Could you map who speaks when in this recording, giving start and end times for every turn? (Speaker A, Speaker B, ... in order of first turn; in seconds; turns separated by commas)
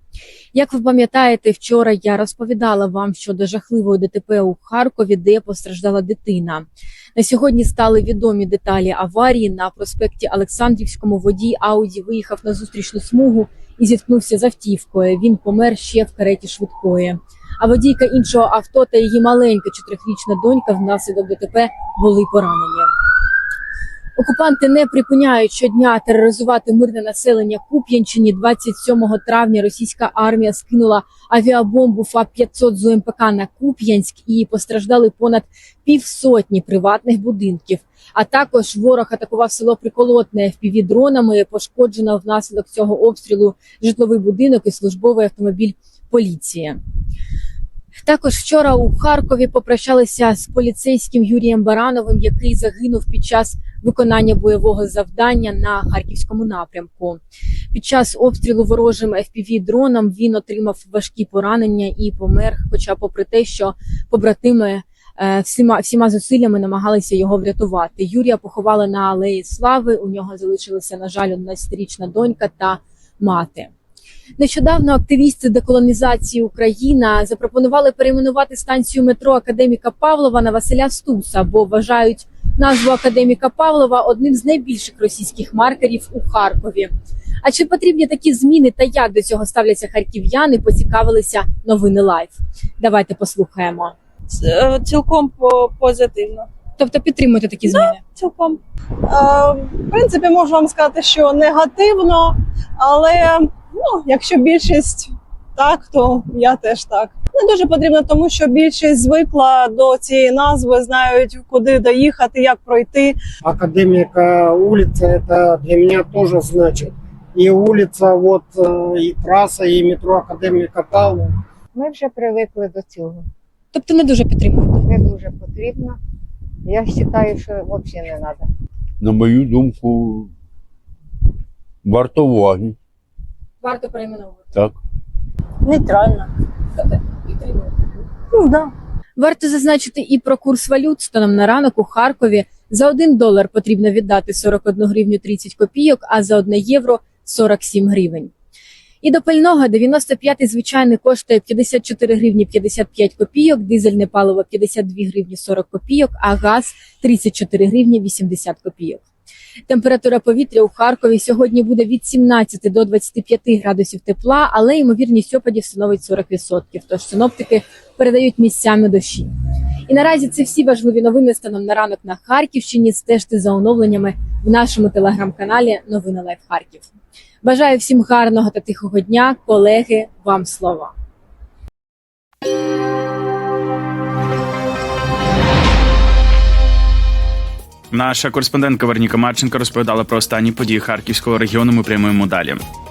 Speaker A: 0.5-22.9, Speaker A: 24.2-46.8, Speaker A: 48.0-57.2, Speaker A: 57.7-73.7, Speaker A: 74.4-86.9, Speaker A: 87.4-93.9, Speaker B: 94.3-96.5, Speaker A: 96.8-98.0, Speaker B: 97.7-113.2, Speaker C: 113.4-121.4, Speaker D: 121.7-123.3, Speaker A: 123.7-124.9, Speaker D: 124.9-126.0, Speaker D: 126.7-128.5, Speaker E: 129.0-130.3, Speaker E: 131.8-132.8, Speaker A: 133.6-134.5, Speaker A: 139.2-148.3, Speaker A: 149.0-159.0, Speaker A: 159.7-169.3, Speaker A: 169.9-176.9, Speaker A: 177.4-180.9, Speaker F: 187.9-192.6